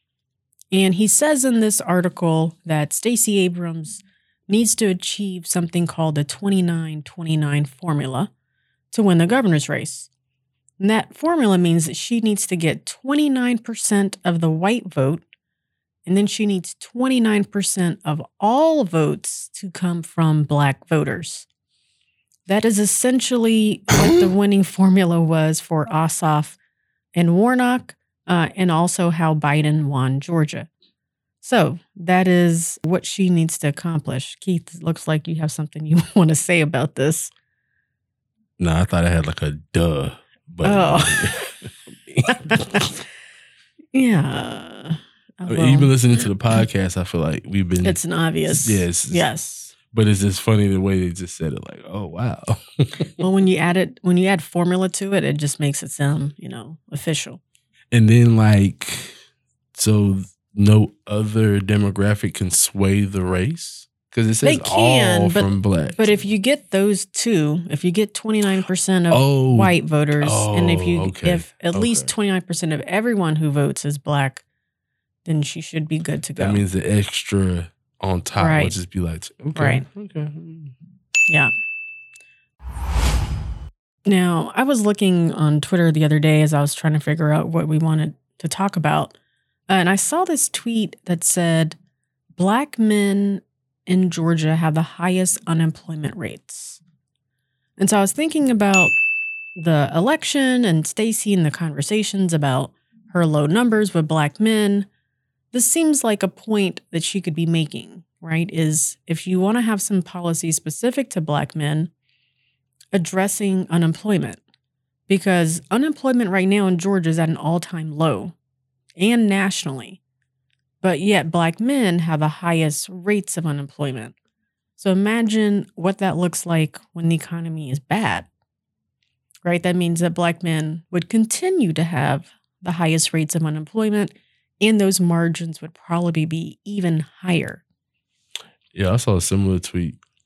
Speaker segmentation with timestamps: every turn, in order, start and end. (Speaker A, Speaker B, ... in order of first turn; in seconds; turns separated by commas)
Speaker A: 0.7-8.3, Speaker A: 8.9-10.1, Speaker A: 10.8-15.2, Speaker A: 16.1-21.4, Speaker A: 22.5-26.6, Speaker A: 27.1-30.7, Speaker A: 31.4-37.3, Speaker B: 38.6-42.6, Speaker A: 40.6-41.4, Speaker A: 42.3-42.9, Speaker A: 43.9-45.9, Speaker B: 45.5-49.3, Speaker A: 47.8-49.7, Speaker B: 49.8-53.1, Speaker A: 53.2-57.4, Speaker B: 57.9-59.2, Speaker B: 59.7-66.1, Speaker A: 64.4-74.4, Speaker B: 69.1-72.1, Speaker A: 75.2-76.6, Speaker B: 76.4-80.7, Speaker A: 78.4-78.7, Speaker A: 79.5-79.8, Speaker A: 84.1-89.1, Speaker A: 89.7-91.8, Speaker A: 92.4-96.8, Speaker A: 97.8-98.9, Speaker A: 99.6-104.9, Speaker A: 105.5-111.9, Speaker A: 112.9-114.4, Speaker A: 115.1-118.3, Speaker A: 119.0-120.0, Speaker A: 120.8-124.1, Speaker A: 124.8-128.3, Speaker A: 129.4-137.6, Speaker B: 138.7-140.0